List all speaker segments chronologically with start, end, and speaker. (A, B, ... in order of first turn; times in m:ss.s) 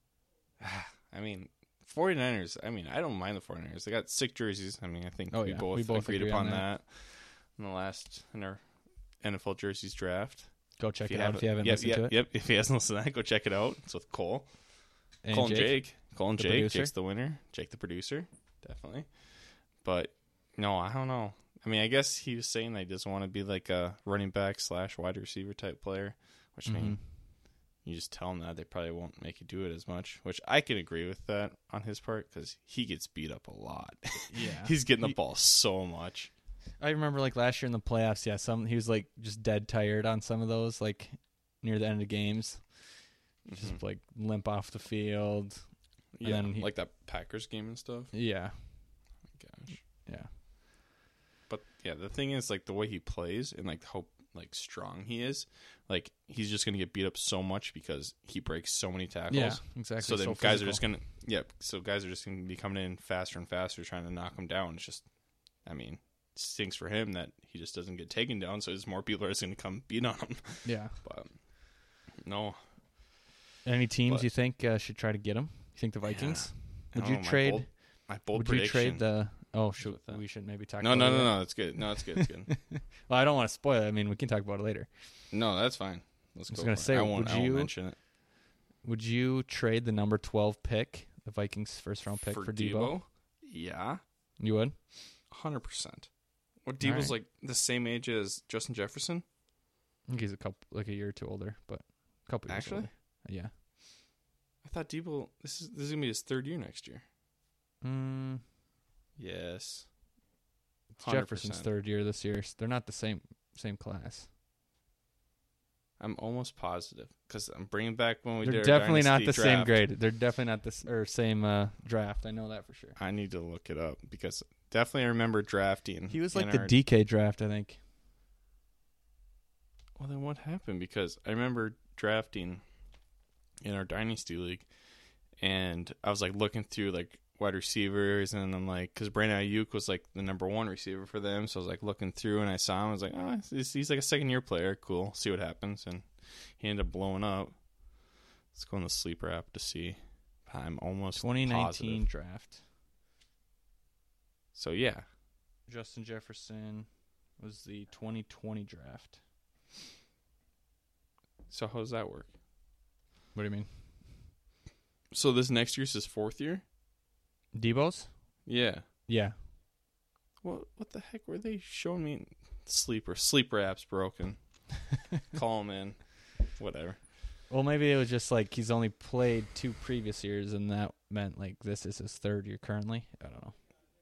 0:00.6-0:08.6 A
0:05.3-0:06.7 B
0:09.2-0:14.5 A
0:10.8-0:12.1 B
0:15.2-0:16.9 B
0:15.3-0:27.2 A
0:26.7-0:27.0 B
0:27.8-0:36.3 A
0:34.3-0:35.2 B
0:36.8-0:46.7 B
0:43.4-0:43.8 A
0:46.1-0:48.1 A
0:48.1-0:49.1 B
0:49.3-0:49.8 A
0:50.0-0:50.3 B
0:51.5-1:05.1 A
0:59.3-1:00.8 B
1:05.6-1:12.6 A
1:10.6-1:11.0 B
1:13.6-1:25.1 B
1:14.1-1:14.3 A
1:16.0-1:22.6 A
1:25.3-1:28.0 A
1:26.5-1:27.8 B
1:28.8-1:33.0 B
1:32.3-1:34.0 A
1:34.4-1:34.9 B
1:35.3-1:36.1 A
1:36.6-1:39.2 A
1:36.8-1:37.1 B
1:40.1-1:43.5 B
1:42.5-1:42.9 A
1:44.6-1:47.0 A
1:47.8-1:48.4 B
1:49.2-1:49.9 A
1:51.0-1:54.3 B
1:51.0-1:51.7 A
1:56.0-1:59.8 A
1:58.4-2:03.0 B
2:03.0-2:06.7 A
2:06.1-2:07.8 B
2:10.0-2:12.6 A
2:13.6-2:14.7 A
2:15.4-2:27.6 A
2:28.5-2:32.1 A
2:31.2-2:32.6 B
2:34.5-2:35.1 A
2:35.7-2:39.2 B
2:41.5-2:42.3 A
2:43.3-2:43.8 B
2:45.1-2:46.6 A
2:47.5-2:48.5 B
2:48.4-2:48.9 A
2:49.1-2:49.4 B
2:50.4-2:54.6 A
2:55.3-2:57.0 A
2:57.5-3:03.7 B